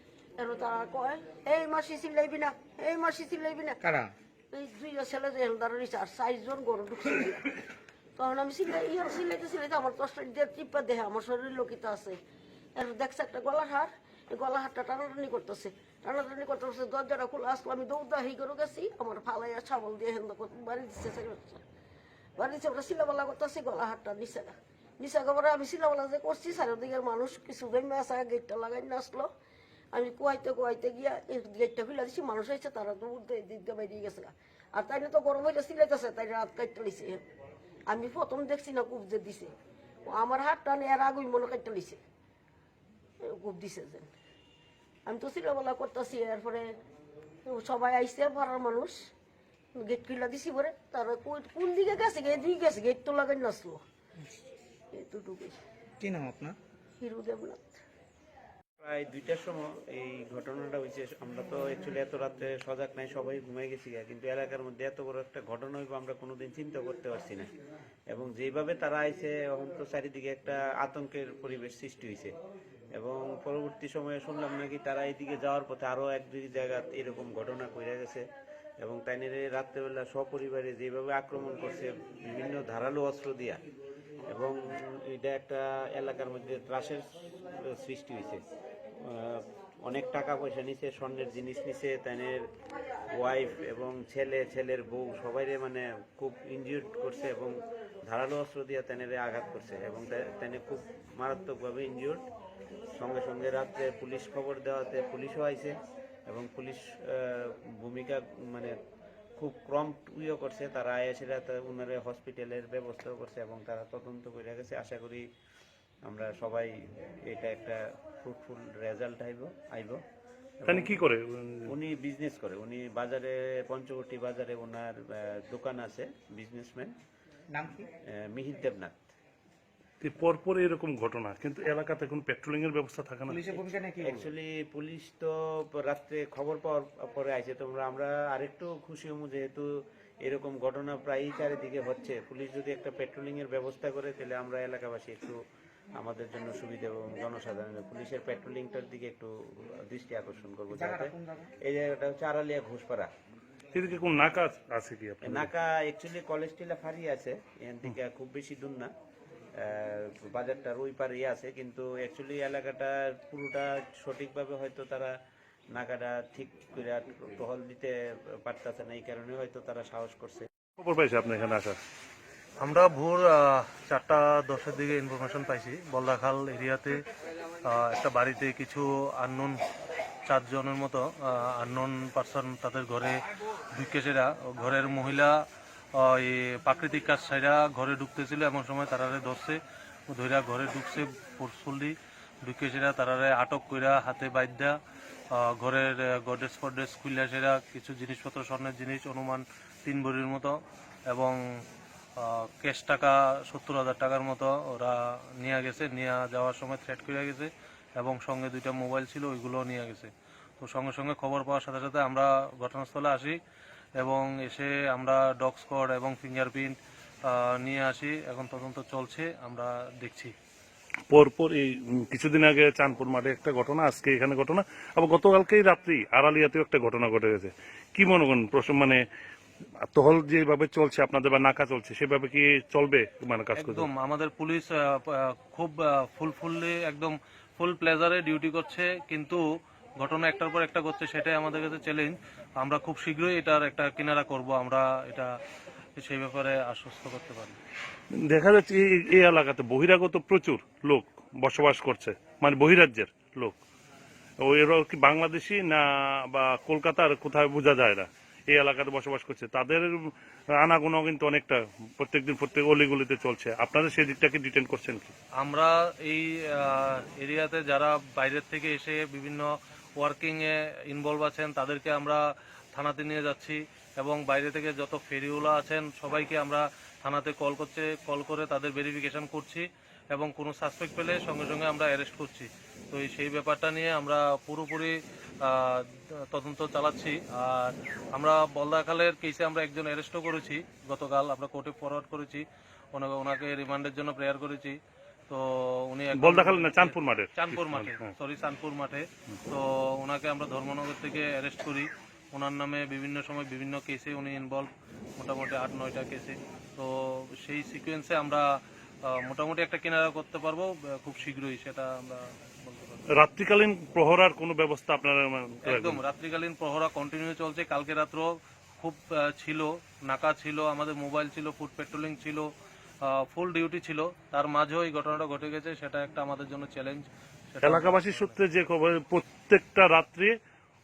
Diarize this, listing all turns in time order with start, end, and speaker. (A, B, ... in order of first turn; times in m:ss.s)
0:00.4-0:03.8 A
0:03.8-0:04.1 B
0:04.5-0:07.5 A
0:08.2-0:12.2 A
0:12.7-0:21.6 A
0:22.4-0:29.3 A
0:29.9-0:37.2 A
0:37.9-0:39.5 A
0:40.0-0:42.0 A
0:43.2-0:44.1 A
0:45.0-0:46.7 A
0:47.4-0:49.1 A
0:49.8-0:53.8 A
0:54.9-0:55.6 A
0:56.0-0:56.6 B
0:57.0-0:57.8 A
0:58.8-1:07.4 C
1:08.1-1:12.3 C
1:13.0-1:18.2 C
1:18.8-1:23.6 C
1:24.3-1:27.0 C
1:27.7-1:28.4 C
1:29.0-1:32.4 C
1:33.1-1:37.5 C
1:38.1-1:42.2 C
1:42.9-1:45.7 C
1:46.3-1:48.7 C
1:49.4-1:55.2 C
1:56.0-1:56.7 C
1:57.3-2:00.0 C
2:00.6-2:00.9 C
2:00.7-2:01.6 D
2:01.7-2:06.9 C
2:07.5-2:07.9 B
2:08.1-2:09.1 C
2:10.0-2:13.4 D
2:13.3-2:14.3 B
2:13.5-2:19.6 C
2:20.2-2:25.4 C
2:26.0-2:33.1 C
2:30.7-2:31.5 B
2:33.7-2:35.5 D
2:35.2-2:38.9 C
2:39.6-2:45.1 C
2:45.7-2:47.9 C
2:48.4-2:50.4 C
2:50.8-2:51.8 D
2:52.6-2:57.0 E
2:57.6-2:59.5 E
3:00.3-3:03.2 E
3:03.7-3:05.4 E
3:06.0-3:09.6 E
3:10.1-3:14.7 E
3:15.3-3:20.6 E
3:21.1-3:21.4 E
3:22.2-3:30.1 E
3:30.6-3:33.4 E
3:34.0-3:40.3 E
3:41.1-3:49.0 D
3:49.8-3:53.9 D
3:53.6-3:59.4 E
4:00.0-4:05.3 E
4:06.0-4:07.6 E
4:08.3-4:13.6 D
4:14.4-4:19.9 D
4:20.6-4:25.1 D
4:25.4-4:32.2 E
4:32.7-4:54.8 E
4:55.3-5:08.4 E
4:56.2-4:58.1 D
5:09.2-5:13.0 E
5:13.1-5:16.0 D
5:15.7-5:22.5 E
5:23.2-5:28.4 E
5:27.6-5:30.3 D